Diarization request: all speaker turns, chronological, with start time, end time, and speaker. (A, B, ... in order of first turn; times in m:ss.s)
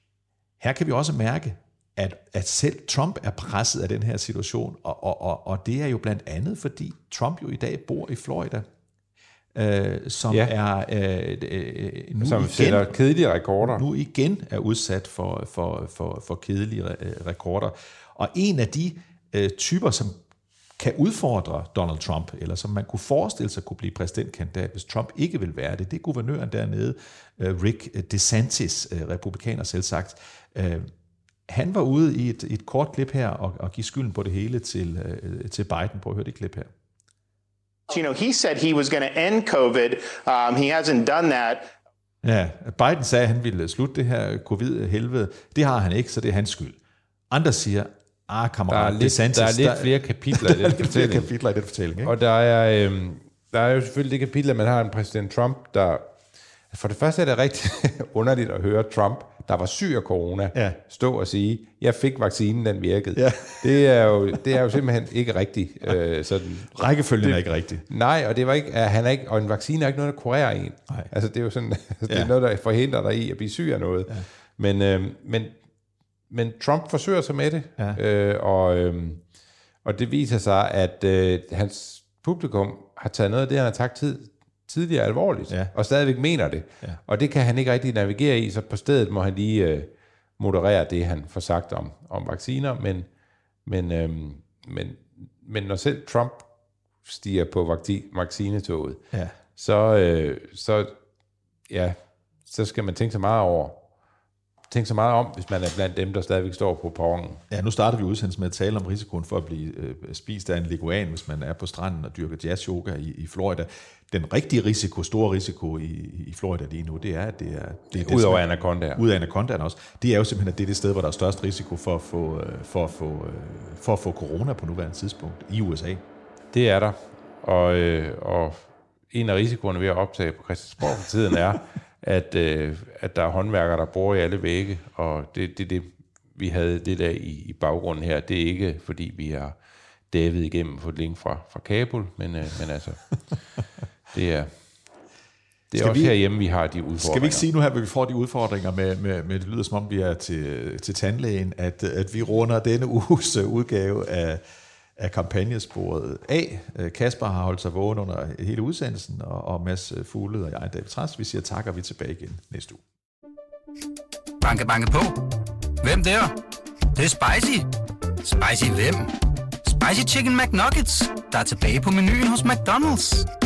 0:00.6-0:08.6 A
0:09.5-0:12.9 A
0:12.2-0:13.8 B
0:13.6-0:20.2 A
0:20.8-0:30.9 A
0:31.5-0:36.7 A
0:37.9-0:41.7 C
0:42.2-0:46.8 A
0:47.3-0:52.1 A
0:48.7-0:51.3 B
0:52.0-0:56.1 B
0:56.7-1:15.6 B
1:00.5-1:00.8 A
1:03.1-1:03.7 A
1:06.7-1:07.8 A
1:16.3-1:19.2 B
1:19.8-1:33.1 B
1:25.5-1:25.7 A
1:33.6-1:36.5 B
1:37.0-1:39.0 B
1:39.1-1:39.4 A
1:39.6-1:41.0 B
1:41.7-1:43.8 B
1:44.7-1:47.4 B
1:47.5-2:06.0 A
1:57.9-1:59.0 B
2:06.5-2:19.6 B
2:20.1-2:23.0 B
2:24.1-2:24.5 B
2:25.7-2:27.4 B
2:25.7-2:26.1 A
2:27.0-2:34.4 A
2:35.0-2:42.8 A
2:44.4-2:45.2 D
2:45.8-2:46.3 D
2:46.9-2:47.7 D
2:48.2-2:49.1 D
2:49.6-2:53.3 D